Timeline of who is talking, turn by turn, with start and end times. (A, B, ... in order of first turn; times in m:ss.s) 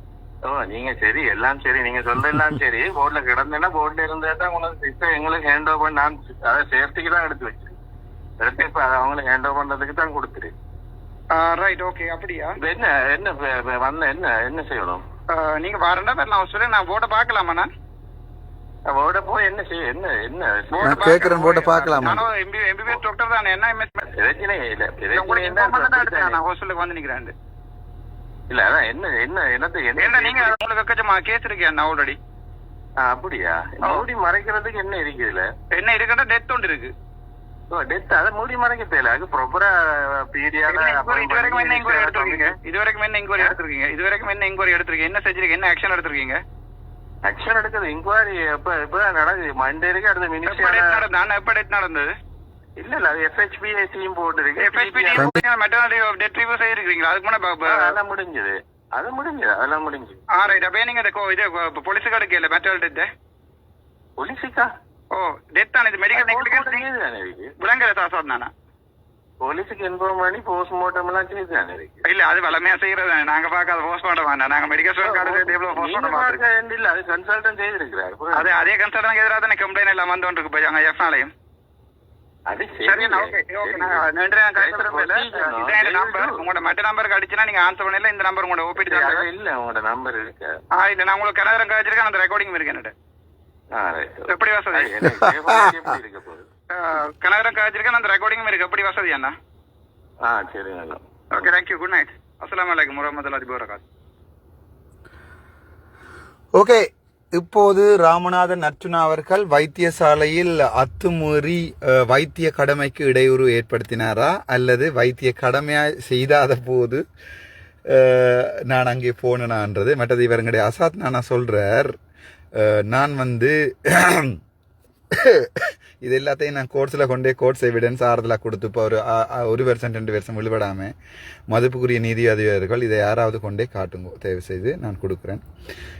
0:00.5-0:07.8 A
0:08.4-0:10.5 A
0:11.4-0:12.6 B
0:12.6-0:15.0 A
0:15.3-0:17.7 B
0:18.9-0:21.0 A
0:20.7-0:24.0 B
0:20.8-0:22.2 C
0:24.1-0:26.4 A
0:25.1-0:27.3 B
0:28.5-0:30.6 A
0:30.0-0:32.2 B
0:33.0-0:35.5 A
0:35.7-0:36.9 B
0:37.7-0:42.6 A
0:40.7-0:46.4 B
0:47.3-0:51.0 A
0:50.5-0:52.1 B
0:52.8-0:55.3 A
0:54.6-0:58.0 B
0:55.2-0:55.4 C
0:57.7-1:00.2 A
1:00.3-1:03.1 B
1:04.2-1:04.7 A
1:05.1-1:06.9 B
1:06.1-1:07.5 A
1:07.6-1:08.5 B
1:09.4-1:12.0 A
1:12.0-1:16.4 B
1:15.0-1:18.5 A
1:18.3-1:21.3 B
1:22.5-1:24.0 A
1:22.8-1:29.3 B
1:24.6-1:26.4 A
1:28.8-1:30.5 A
1:30.8-1:32.9 B
1:33.7-1:36.5 A
1:34.3-1:35.0 B
1:35.1-1:35.7 C
1:36.7-1:39.4 B
1:40.2-1:41.0 A
1:41.3-1:43.8 B
1:46.6-1:57.0 C
1:57.9-2:02.0 C
2:02.6-2:04.4 C
2:05.1-2:10.9 C
2:11.5-2:15.4 C